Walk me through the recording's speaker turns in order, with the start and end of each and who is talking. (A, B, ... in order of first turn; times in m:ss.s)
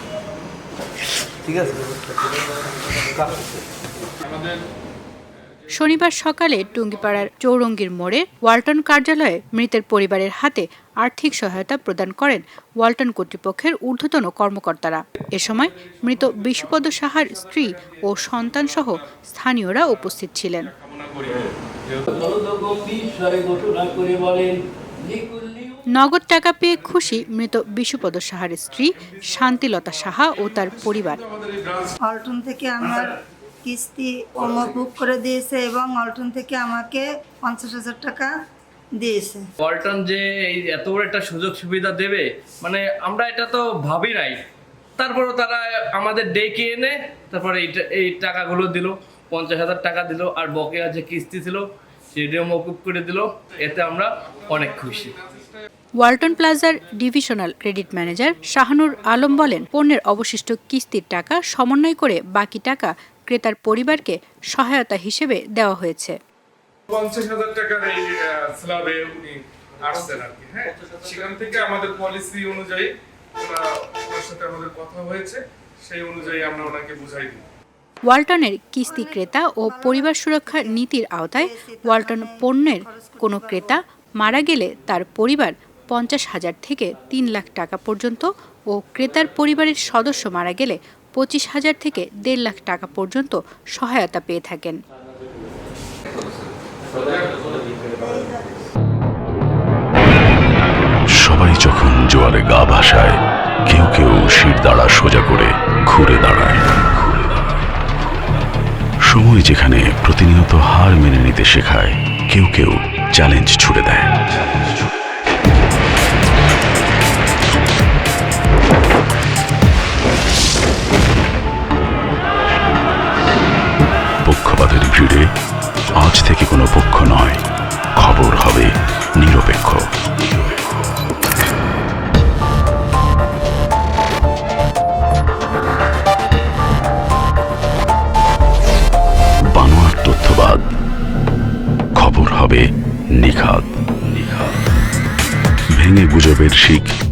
0:04.2-0:04.6 A
0:05.7-0:20.7 B
0:06.8-0:07.1 A
0:15.4-0:18.9 A
0:20.7-0:21.5 A
0:21.9-0:25.8 C
0:25.9-0:31.2 B
0:31.2-0:31.9 A
0:32.0-0:38.3 D
0:38.9-0:39.5 D
0:39.6-0:44.4 C
0:45.0-0:55.2 C
0:56.0-1:06.2 B
1:06.9-1:17.4 A
1:18.1-1:34.8 B
1:18.8-1:20.8 D
1:21.4-1:23.8 D
1:38.0-1:38.6 D
1:41.2-1:46.7 E
1:49.1-1:54.1 E
2:04.2-2:05.3 E
2:06.0-2:07.4 E
2:08.0-2:09.8 E
2:19.5-2:20.7 E
2:22.0-2:24.5 E
2:25.7-2:26.9 E